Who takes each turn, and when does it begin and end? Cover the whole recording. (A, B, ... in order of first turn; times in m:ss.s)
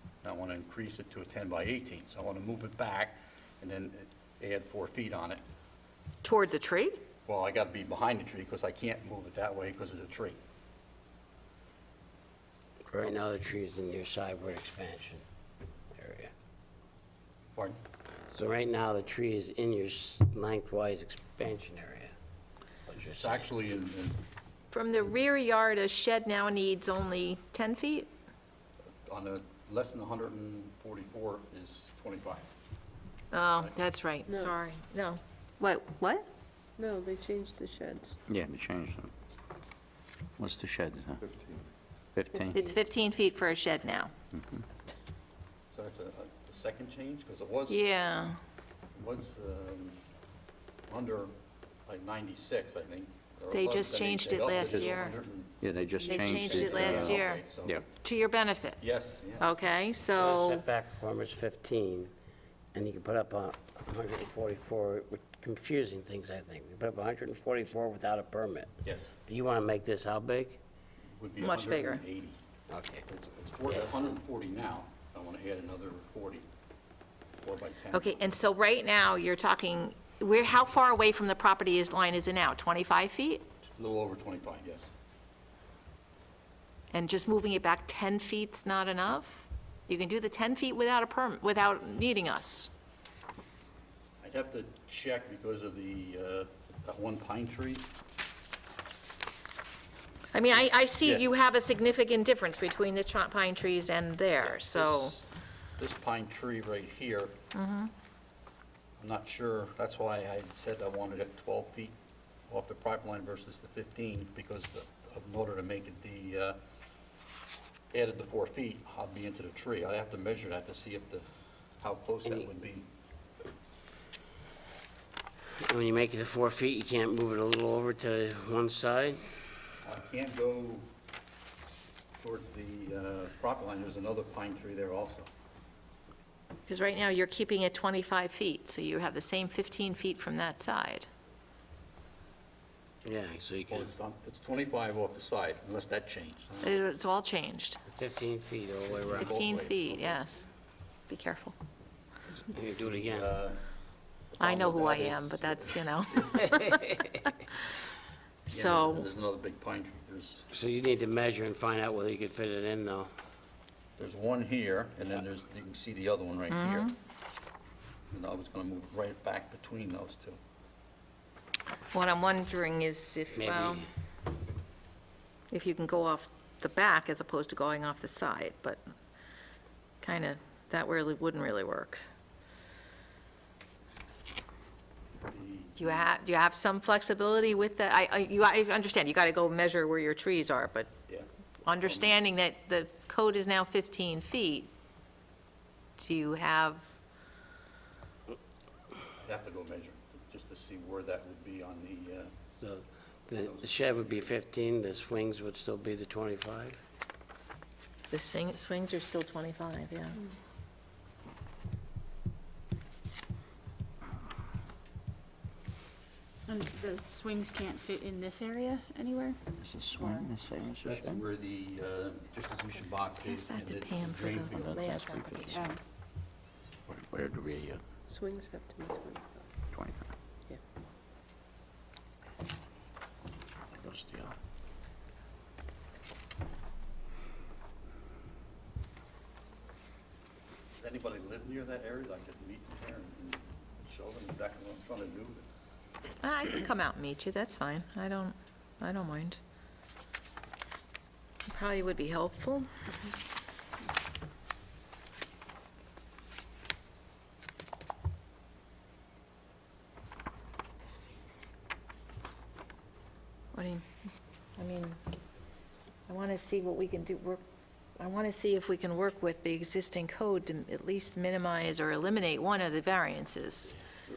0:00.2-0:05.4 A
0:06.2-0:07.0 B
0:07.3-0:10.4 A
0:12.9-0:15.2 C
0:16.0-0:16.3 C
0:18.3-0:22.1 C
0:22.9-0:23.6 C
0:23.1-0:24.2 A
0:24.7-0:28.1 B
0:29.0-0:32.5 A
0:33.3-0:36.3 B
0:34.3-0:34.6 D
0:36.8-0:38.2 D
0:38.3-0:39.1 E
0:40.4-0:41.2 E
0:42.2-0:42.6 E
0:42.5-0:44.1 B
0:44.3-0:44.6 E
0:45.7-0:47.8 A
0:47.7-0:48.4 B
0:49.0-0:50.0 A
0:50.9-0:51.3 A
0:51.9-0:55.6 A
0:53.5-0:55.2 B
0:55.6-0:57.9 E
0:56.1-0:57.4 B
0:56.1-0:56.4 D
0:56.3-0:57.8 A
0:58.0-0:58.8 B
0:58.8-0:59.5 A
0:59.4-1:00.6 B
1:00.2-1:02.1 C
1:02.7-1:08.8 C
1:08.8-1:09.1 A
1:09.3-1:10.6 C
1:11.2-1:12.4 A
1:11.4-1:12.0 B
1:12.7-1:13.0 C
1:13.0-1:16.5 A
1:13.7-1:14.0 C
1:17.4-1:18.3 A
1:17.9-1:23.4 B
1:23.7-1:24.9 A
1:26.9-1:32.7 B
1:34.2-1:37.9 A
1:40.3-1:45.2 B
1:44.4-1:47.4 A
1:47.5-1:47.9 B
1:49.0-1:52.0 A
1:52.5-1:56.6 A
1:57.9-2:01.2 A
2:01.8-2:02.9 A
2:05.6-2:09.2 C
2:09.8-2:10.9 A
2:12.2-2:15.3 A
2:16.7-2:21.1 B
2:23.0-2:23.9 C
2:23.7-2:26.8 A
2:26.6-2:27.8 B
2:27.9-2:29.4 C
2:28.9-2:30.2 A
2:29.2-2:30.5 B
2:31.1-2:31.6 B
2:32.5-2:33.3 C
2:33.0-2:33.7 A
2:34.3-2:36.3 A
2:34.4-2:36.7 B
2:38.5-2:39.1 B
2:38.5-2:40.5 A
2:40.5-2:43.1 C
2:44.0-2:46.9 A
2:46.5-2:46.9 B
2:48.1-2:50.4 A
2:51.9-2:53.9 B
2:53.3-2:53.9 C
2:55.5-2:58.8 B
3:00.0-3:02.0 B
3:05.2-3:06.1 A
3:05.8-3:10.9 B
3:11.1-3:12.2 A
3:11.7-3:14.7 B
3:16.0-3:16.9 B
3:19.2-3:22.3 A
3:22.6-3:26.8 C
3:23.4-3:24.4 A
3:28.1-3:30.2 B
3:36.5-3:39.4 F
3:39.6-3:41.2 E
3:40.0-3:40.3 F
3:40.8-3:44.8 A
3:43.2-3:45.6 B
3:44.5-3:45.7 E
3:46.9-3:47.8 E
3:48.1-3:49.5 D
3:49.7-3:50.1 E
3:53.7-3:54.4 E
4:00.8-4:05.4 A
4:06.2-4:09.4 B
4:11.5-4:12.7 B
4:23.5-4:23.8 B
4:24.6-4:25.0 B
4:26.1-4:27.4 B
4:28.0-4:33.8 B